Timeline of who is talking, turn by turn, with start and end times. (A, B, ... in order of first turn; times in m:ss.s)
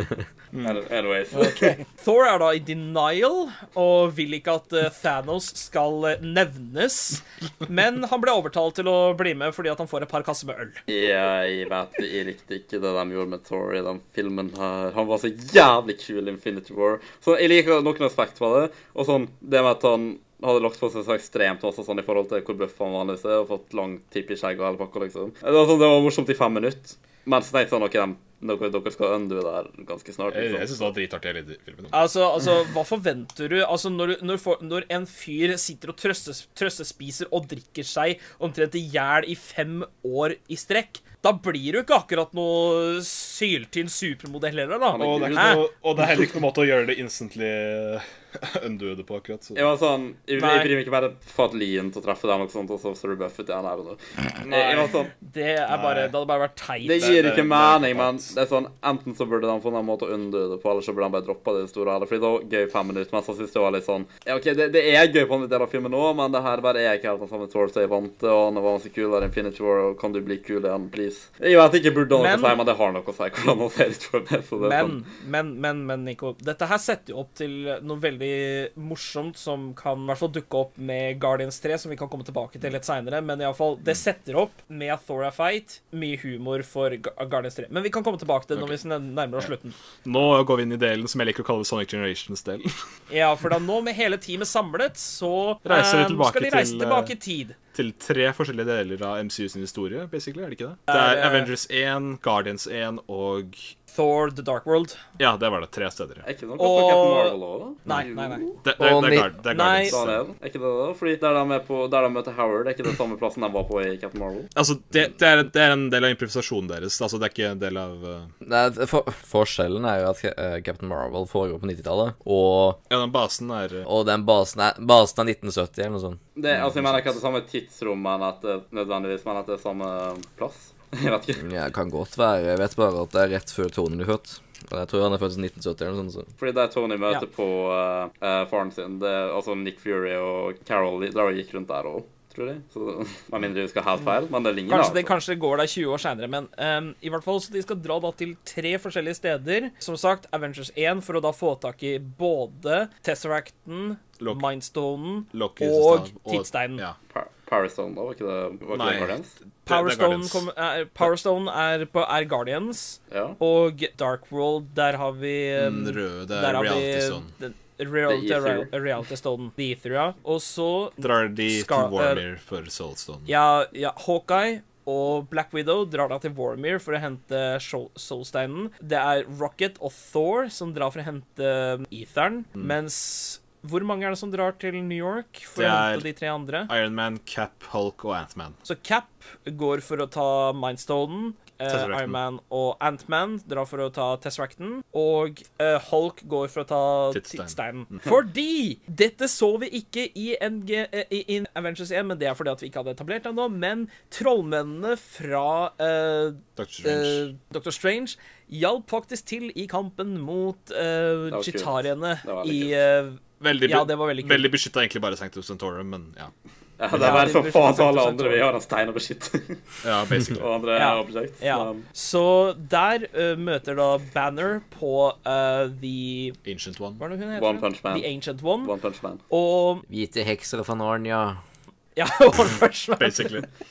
0:00.5-0:00.8 A
0:00.6-0:01.8 B
0:01.3-0:10.8 C
0:10.9-0:30.9 B
0:30.3-0:32.0 A
0:31.9-0:45.6 C
0:44.9-0:45.6 B
0:45.0-0:49.6 A
0:49.5-0:55.1 B
0:50.4-0:50.7 C
0:54.5-0:57.2 C
0:55.7-0:56.1 A
0:56.8-1:15.0 B
0:56.9-0:58.3 A
1:12.1-1:12.6 C
1:14.6-1:29.7 C
1:30.0-1:32.7 A
1:33.1-1:37.6 C
1:35.6-1:37.1 A
1:37.7-1:43.7 A
1:40.9-1:41.5 C
1:43.9-1:45.0 C
1:45.2-1:46.2 A
1:46.2-1:48.6 B
1:46.6-1:50.0 C
1:48.6-1:50.2 A
1:48.8-1:49.3 D
1:49.8-1:54.5 B
1:54.5-1:58.3 A
1:58.4-2:02.8 D
2:02.9-2:03.9 A
2:03.8-2:06.2 D
2:06.3-2:11.4 B
2:06.5-2:07.0 A
2:11.4-2:16.3 D
2:16.4-2:25.1 B
2:24.7-2:36.8 C
2:34.2-2:34.4 A
2:35.3-2:37.0 A
2:37.1-2:39.3 B
2:38.7-2:40.4 A
2:39.7-2:52.2 C
2:43.1-2:43.4 B
2:45.6-2:47.3 A
2:48.1-2:48.7 B
2:51.0-2:53.3 A
2:53.3-3:06.7 C
3:05.6-3:06.0 A
3:06.7-3:08.6 A
3:08.6-3:34.5 C
3:11.7-3:12.2 A
3:17.1-3:18.0 A
3:26.6-3:27.2 A
3:31.3-3:32.8 B
3:33.4-3:36.3 A
3:36.8-3:39.6 B
3:36.9-3:37.3 A
3:36.9-3:38.4 C
3:39.8-3:40.5 A
3:40.3-3:41.8 B
3:40.8-3:46.4 C
3:46.4-3:47.0 A
3:47.0-3:48.7 C
3:47.3-3:48.1 B
3:48.6-3:49.2 B
3:49.3-3:49.8 C
3:49.9-3:51.4 D
3:52.0-3:53.4 C
3:53.0-3:53.4 A